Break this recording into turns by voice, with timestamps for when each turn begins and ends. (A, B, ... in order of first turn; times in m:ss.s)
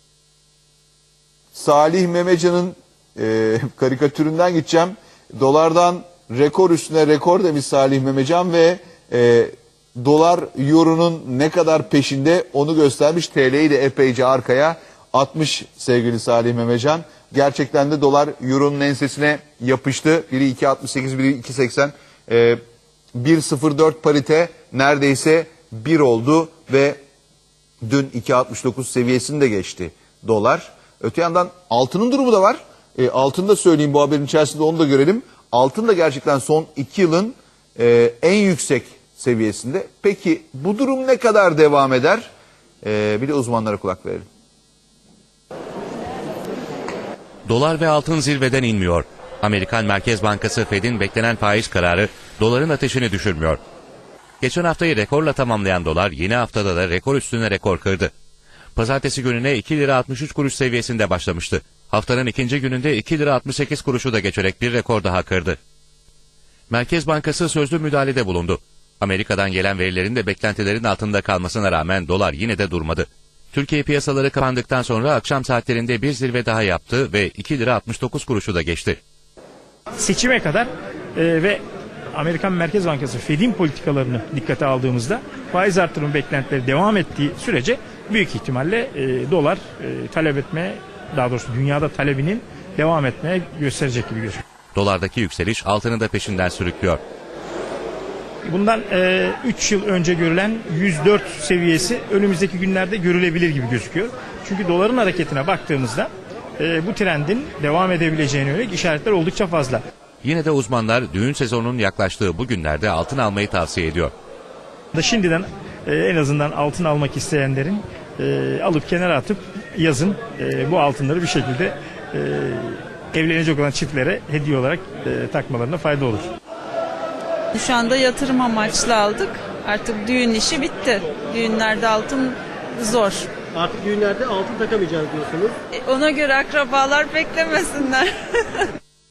0:01.5-0:22.6 A
0:23.1-0:27.0 A
0:27.8-0:42.3 A
0:42.8-0:44.2 A
0:47.5-0:53.6 B
0:54.4-0:58.1 B
0:58.8-1:05.6 B
1:06.7-1:19.0 B
1:20.0-1:21.6 C
1:22.1-1:34.4 C
1:34.7-1:37.0 B
1:38.4-1:49.8 C
1:50.2-1:54.1 B
1:54.9-2:06.3 C
2:07.5-2:13.3 D
2:13.6-2:15.6 E
2:15.8-2:18.7 D